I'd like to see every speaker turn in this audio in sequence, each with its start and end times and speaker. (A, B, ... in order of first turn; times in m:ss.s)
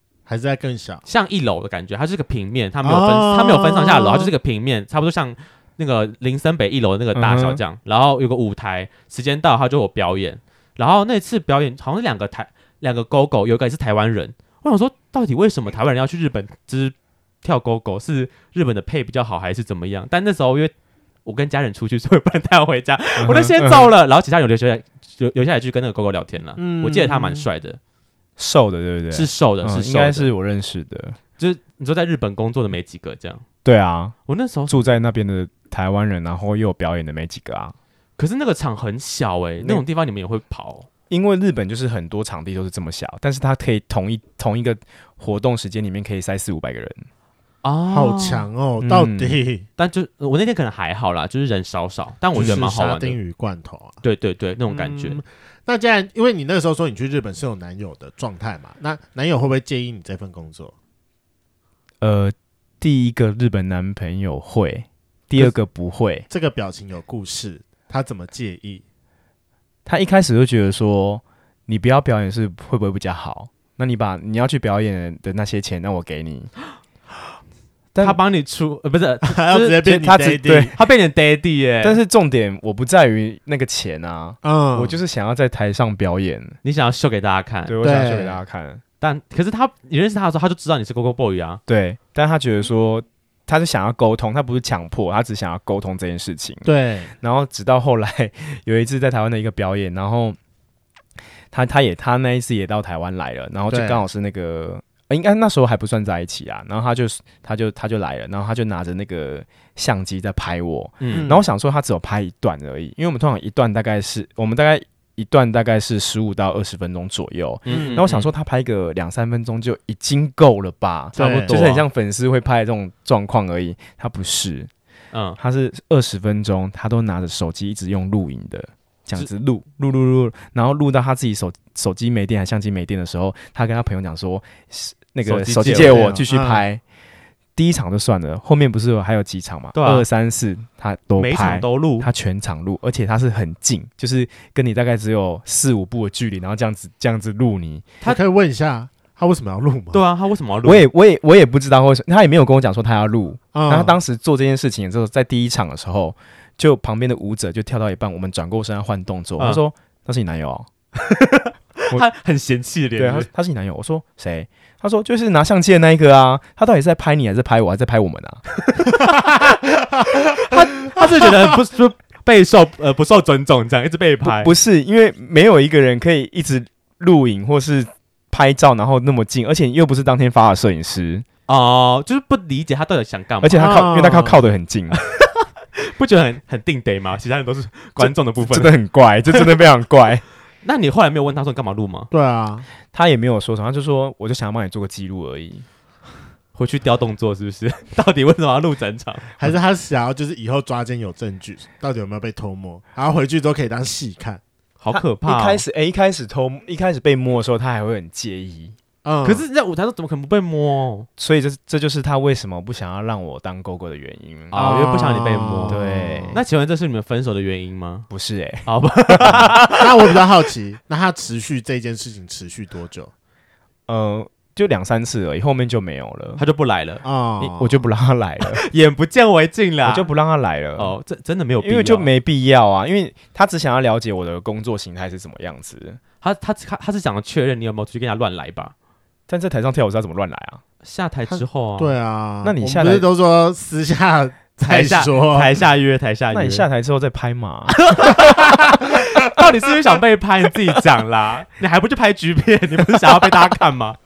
0:00.3-0:01.0 A
0:01.0-0:20.7 B
0:02.8-0:04.3 A
0:07.1-0:07.6 C
0:21.2-0:27.8 B
0:23.2-0:23.9 C
0:26.6-0:27.5 A
0:28.4-0:31.2 C
0:29.1-0:30.3 B
0:31.4-0:33.4 B
0:33.6-0:34.1 C
0:34.3-0:34.9 B
0:34.7-0:37.7 C
0:38.2-0:40.9 B
0:41.1-0:47.1 C
0:47.6-0:48.4 B
0:47.9-0:49.6 A
0:48.8-0:49.4 C
0:49.8-0:53.2 B
0:52.3-0:54.0 A
0:54.0-0:55.2 B
0:54.6-1:00.7 A
1:02.0-1:06.3 C
1:06.3-1:08.8 A
1:09.9-1:16.5 C
1:17.9-1:18.2 C
1:18.0-1:19.8 B
1:19.2-1:20.8 A
1:19.8-1:20.7 C
1:20.7-1:22.0 B
1:21.8-1:26.6 C
1:24.4-1:25.0 A
1:26.6-1:27.7 B
1:27.7-1:28.8 C
1:27.8-1:28.4 A
1:29.0-1:31.6 B
1:31.7-1:36.7 C
1:36.6-1:37.1 A
1:37.2-1:40.4 C
1:41.5-2:04.7 C
1:43.7-1:44.0 A
1:51.0-1:51.3 B
1:51.1-1:51.4 A
1:57.6-1:58.3 B
1:57.7-1:58.0 A
2:01.1-2:01.9 B
2:01.2-2:01.6 A
2:05.1-2:05.4 B
2:05.4-2:16.8 C
2:15.2-2:16.0 B
2:15.6-2:16.6 A
2:17.6-2:27.9 C
2:19.7-2:20.0 B
2:21.2-2:22.1 B
2:28.0-2:30.0 A
2:29.9-2:30.9 B
2:30.6-2:40.7 C
2:33.5-2:34.0 A
2:39.4-2:39.6 B
2:41.0-2:43.3 B
2:43.0-2:48.4 C
2:48.7-2:54.5 B
2:54.2-3:01.3 C
3:01.5-3:03.9 B
3:03.4-3:05.0 C
3:03.6-3:04.4 A
3:04.9-3:08.7 B
3:08.0-3:10.2 C
3:10.6-3:12.1 B
3:12.1-3:12.7 A
3:12.9-3:15.6 C
3:16.6-3:19.3 B
3:19.4-3:24.4 A
3:24.8-3:25.6 B
3:24.9-3:28.8 C
3:29.0-3:29.4 A
3:29.2-3:31.1 B
3:31.2-3:34.6 C
3:34.5-3:35.8 B
3:34.5-3:36.4 A
3:35.7-3:36.4 C
3:36.3-3:38.1 B
3:38.1-3:39.8 C
3:38.6-3:39.8 B
3:39.7-3:43.1 A
3:43.9-3:46.4 C
3:46.4-3:47.0 B
3:47.0-3:47.8 A
3:47.4-3:48.6 C
3:48.4-3:50.1 B
3:49.8-3:51.0 C
3:50.8-3:52.1 B
3:51.6-3:56.0 C
3:56.2-3:58.7 B
3:59.3-4:00.6 C
4:00.8-4:02.0 B
4:01.3-4:05.5 A
4:02.4-4:03.0 C
4:04.6-4:06.6 B
4:06.3-4:07.8 C
4:07.8-4:14.0 B
4:08.2-4:09.0 A